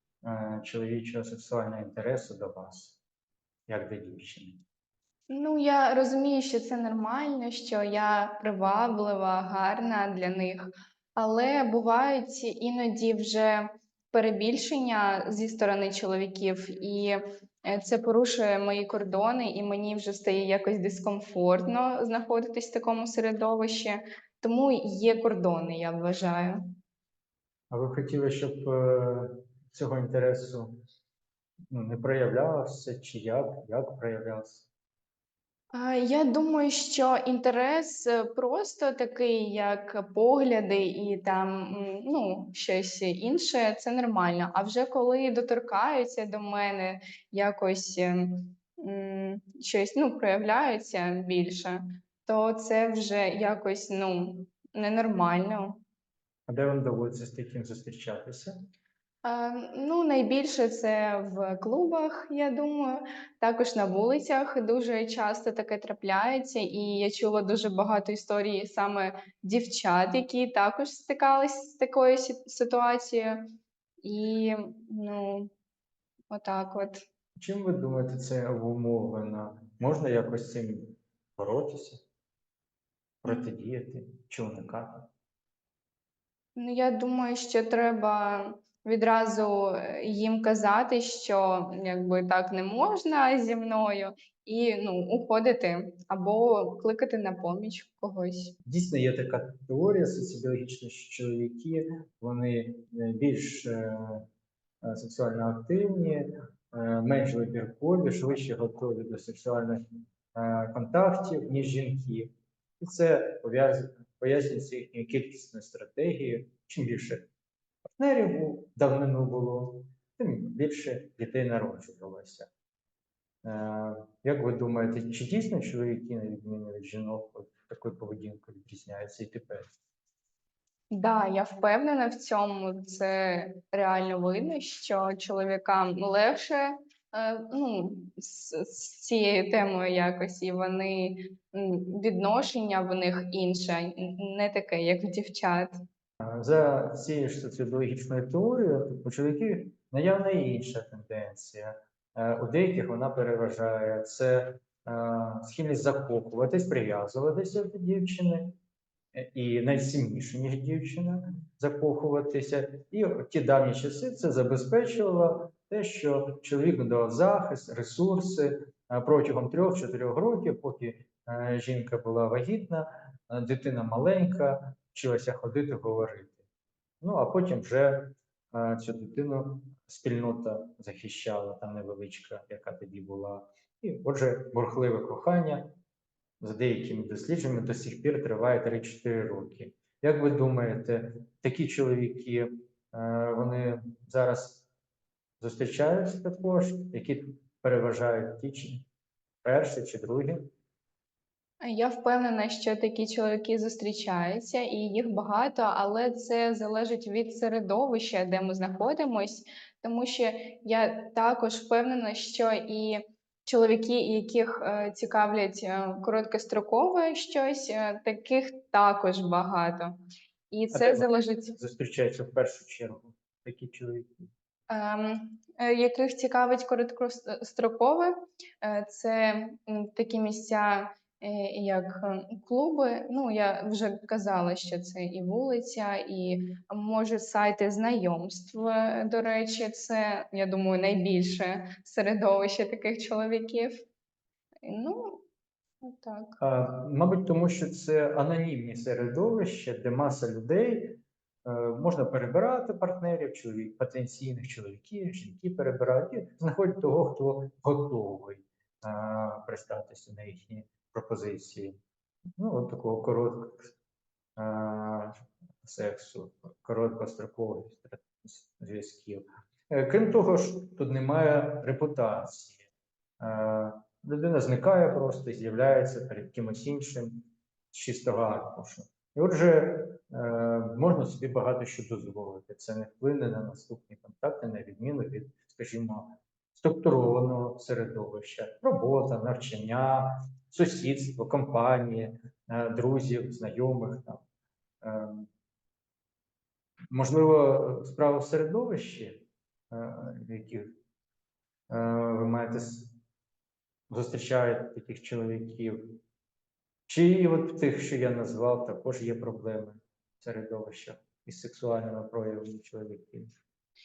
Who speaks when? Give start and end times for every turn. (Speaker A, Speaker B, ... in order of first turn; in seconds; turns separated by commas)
Speaker A: 0.2-3.0, Speaker A: 3.7-4.6, Speaker B: 5.3-26.6, Speaker A: 27.7-30.8, Speaker A: 31.7-34.7, Speaker B: 35.7-55.8, Speaker A: 56.5-58.5, Speaker B: 59.2-73.5, Speaker B: 74.0-75.5, Speaker B: 76.3-77.0, Speaker A: 77.3-82.0, Speaker A: 83.2-85.1, Speaker B: 86.5-98.5, Speaker A: 98.6-104.3, Speaker A: 104.8-109.8, Speaker A: 110.3-117.3, Speaker A: 118.0-122.5, Speaker A: 123.4-129.7, Speaker B: 130.9-145.8, Speaker A: 146.2-158.6, Speaker A: 159.1-176.4, Speaker A: 177.0-185.7, Speaker A: 186.4-194.6, Speaker A: 195.4-198.8, Speaker A: 199.4-200.5, Speaker B: 201.6-219.9, Speaker B: 220.5-221.6, Speaker A: 220.7-224.3, Speaker B: 224.7-243.8, Speaker B: 244.6-245.2, Speaker B: 245.8-246.4, Speaker A: 246.4-261.7, Speaker A: 262.4-263.7, Speaker A: 264.4-272.7, Speaker A: 273.2-294.2, Speaker A: 294.8-295.3, Speaker A: 296.9-300.7, Speaker A: 301.7-302.9, Speaker A: 303.9-306.0, Speaker A: 306.9-313.3